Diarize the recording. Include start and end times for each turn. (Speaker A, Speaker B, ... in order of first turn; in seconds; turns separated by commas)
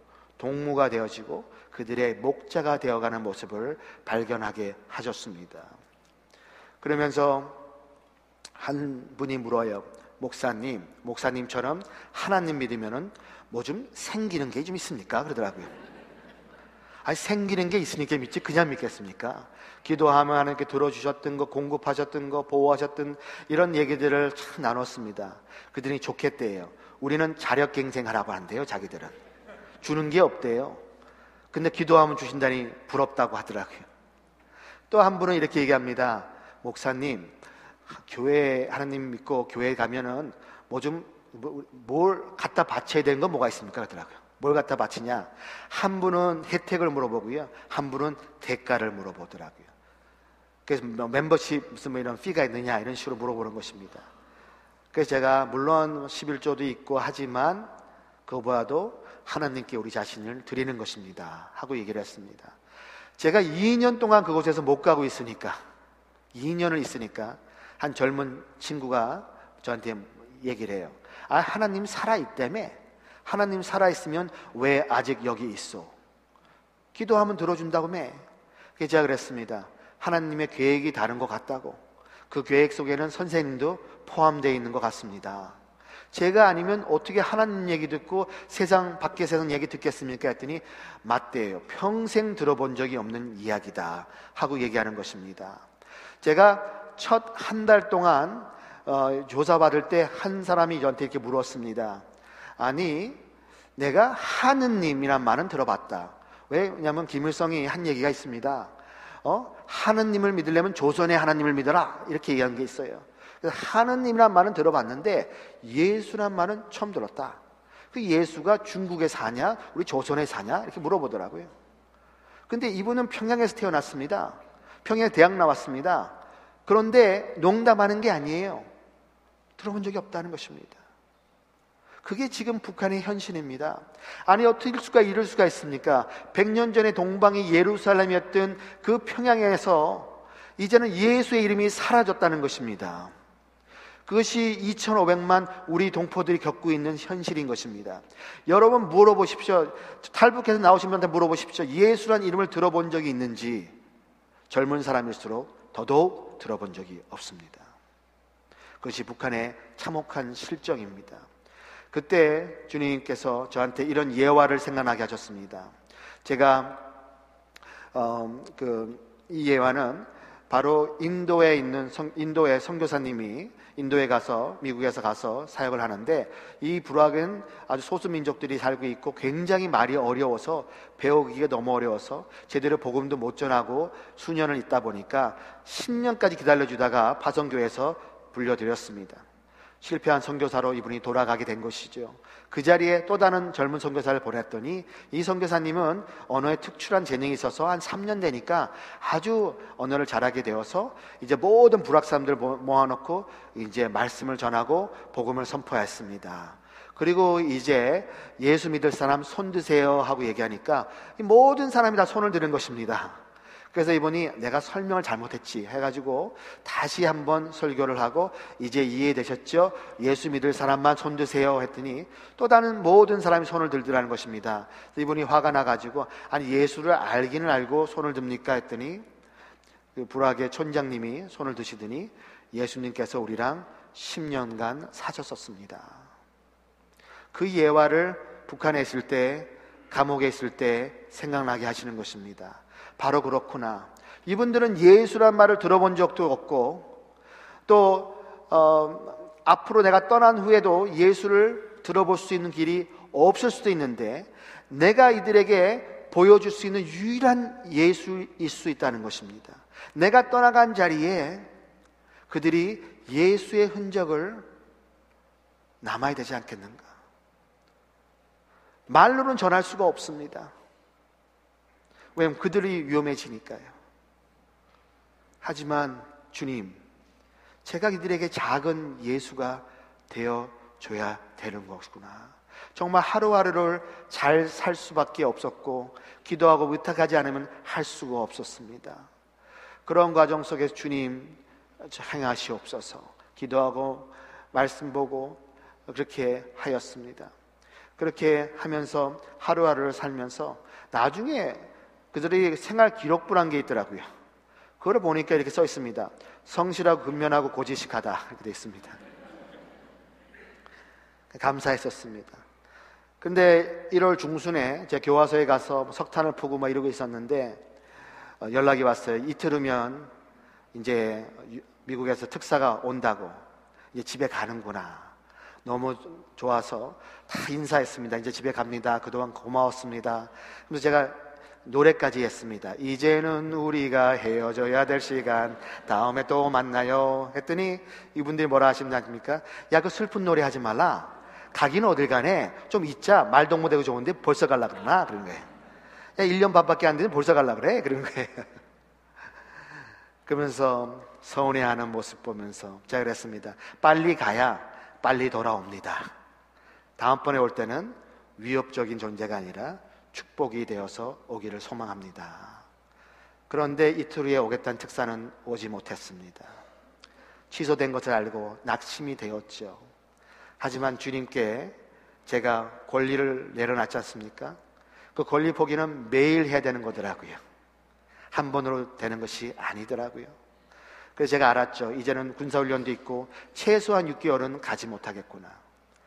Speaker A: 0.4-5.7, Speaker A: 6.8-7.6, Speaker A: 8.6-15.7, Speaker A: 17.0-29.1, Speaker A: 29.8-30.8, Speaker A: 31.5-33.9, Speaker A: 34.9-37.3, Speaker A: 37.9-49.7, Speaker A: 50.6-54.0, Speaker A: 54.9-57.7, Speaker A: 58.2-62.5, Speaker A: 63.2-65.6, Speaker A: 66.3-75.9, Speaker A: 76.9-78.2, Speaker A: 78.8-85.6, Speaker A: 86.1-95.6, Speaker A: 96.2-102.0, Speaker A: 102.6-103.2, Speaker A: 103.8-108.7, Speaker A: 109.2-117.4, Speaker A: 117.9-121.5, Speaker A: 122.5-128.7, Speaker A: 129.6-130.8, Speaker A: 132.0-143.1, Speaker A: 144.1-153.8, Speaker A: 154.5-157.7, Speaker A: 158.8-161.2, Speaker A: 161.9-165.7, Speaker A: 166.2-166.9, Speaker A: 167.9-189.2, Speaker A: 189.8-213.2, Speaker A: 213.7-229.0, Speaker A: 229.9-236.0, Speaker A: 237.3-247.0, Speaker A: 247.7-261.5, Speaker A: 262.3-264.5, Speaker A: 265.8-266.9, Speaker A: 268.9-270.5, Speaker A: 272.1-273.7, Speaker A: 275.4-276.8, Speaker A: 277.6-289.1, Speaker A: 289.9-297.3, Speaker A: 298.0-304.1, Speaker A: 304.8-309.0, Speaker A: 311.3-312.4, Speaker A: 313.2-317.6, Speaker A: 318.4-320.1, Speaker A: 320.7-323.4, Speaker A: 323.9-325.1, Speaker A: 325.6-345.4, Speaker A: 346.2-348.5, Speaker A: 350.2-356.1, Speaker A: 357.0-362.6, Speaker A: 363.5-366.5, Speaker A: 367.5-369.8, Speaker A: 370.6-374.6, Speaker A: 375.1-377.4, Speaker A: 378.3-380.3, Speaker A: 381.1-385.6